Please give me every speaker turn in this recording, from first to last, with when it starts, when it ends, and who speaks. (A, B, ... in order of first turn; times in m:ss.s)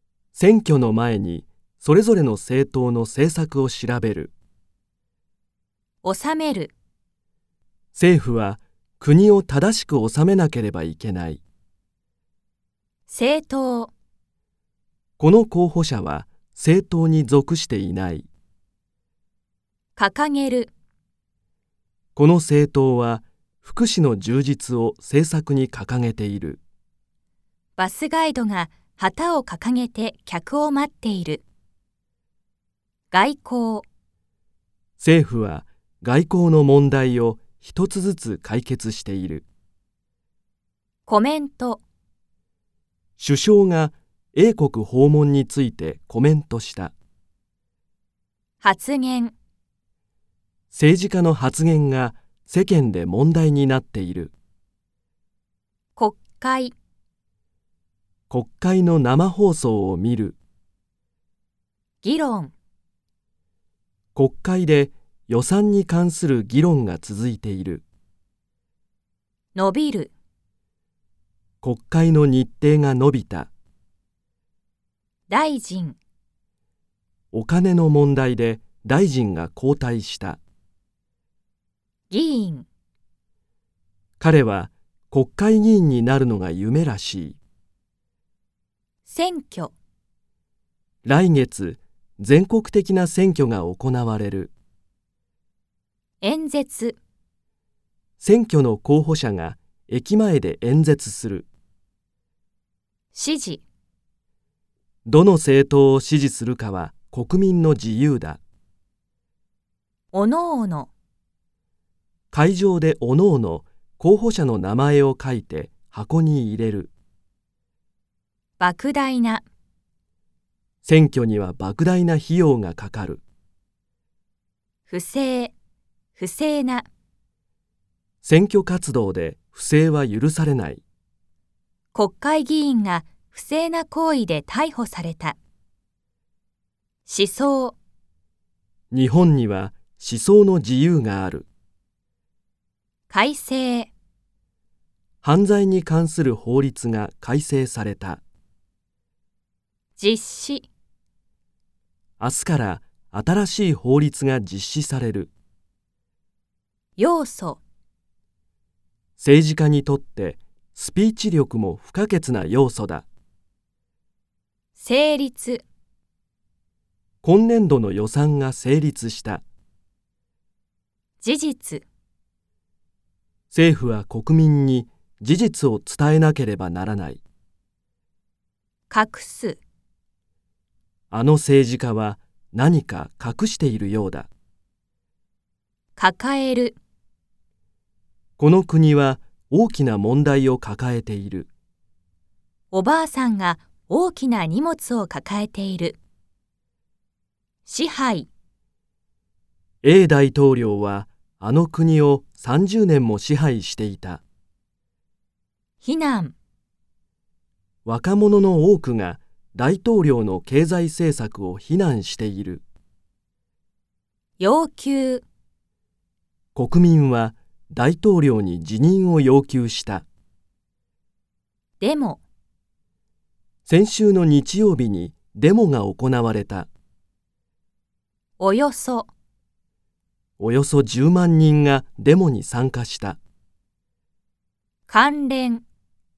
0:00.3-0:04.3 A
0:06.0-0:06.7 B
0:07.9-0:11.4 A
0:13.1-0:13.9 B
0:15.2-0:18.2 A
0:20.0-0:20.7 B
0:22.2-0:26.6 A
0:27.8-0:31.4 B
0:33.1-0:33.8 B
0:35.0-0:39.4 A
0:41.0-0:41.8 B
0:43.2-0:46.9 A
0:48.6-0:49.3 B
0:50.7-0:54.3 A
0:56.0-0:56.7 B
0:58.3-1:00.4 A
1:02.0-1:02.5 B
1:04.1-1:07.8 A
1:09.5-1:10.1 B
1:11.6-1:13.5 A
1:15.3-1:16.0 B
1:17.3-1:20.4 A
1:22.1-1:22.7 B
1:24.2-1:27.4 A
1:29.0-1:29.7 B
1:31.0-1:34.5 A
1:36.2-1:37.0 B
1:38.2-1:41.5 A
1:43.1-1:43.6 B
1:45.0-1:48.4 A
1:50.1-1:50.9 B
1:52.3-1:56.9 A
1:58.6-1:59.4 B
2:00.8-2:03.2 A
2:04.9-2:05.5 B
2:06.2-2:06.9 B
2:08.2-2:10.8 A
2:11.9-2:15.4 B
2:17.0-2:17.8 B
2:18.9-2:21.5 A
2:23.1-2:23.9 B
2:25.2-2:28.2 A
2:30.0-2:30.7 B
2:32.2-2:35.3 A
2:37.0-2:37.6 B
2:39.2-2:43.0 A
2:44.8-2:45.6 B
2:47.2-2:49.4 A
2:51.2-2:51.8 B
2:53.5-2:57.2 A
2:58.9-2:59.6 B
3:01.1-3:04.3 A
3:06.0-3:06.8 B
3:08.4-3:11.5 A
3:12.7-3:16.0 B
3:17.6-3:18.3 B
3:19.8-3:24.2 A
3:25.8-3:26.3 B
3:27.8-3:32.6 A
3:34.4-3:35.2 B
3:36.5-3:40.0 A
3:41.8-3:42.2 B
3:43.7-3:46.7 A
3:48.4-3:49.1 B
3:50.4-3:53.2 A
3:54.9-3:55.6 B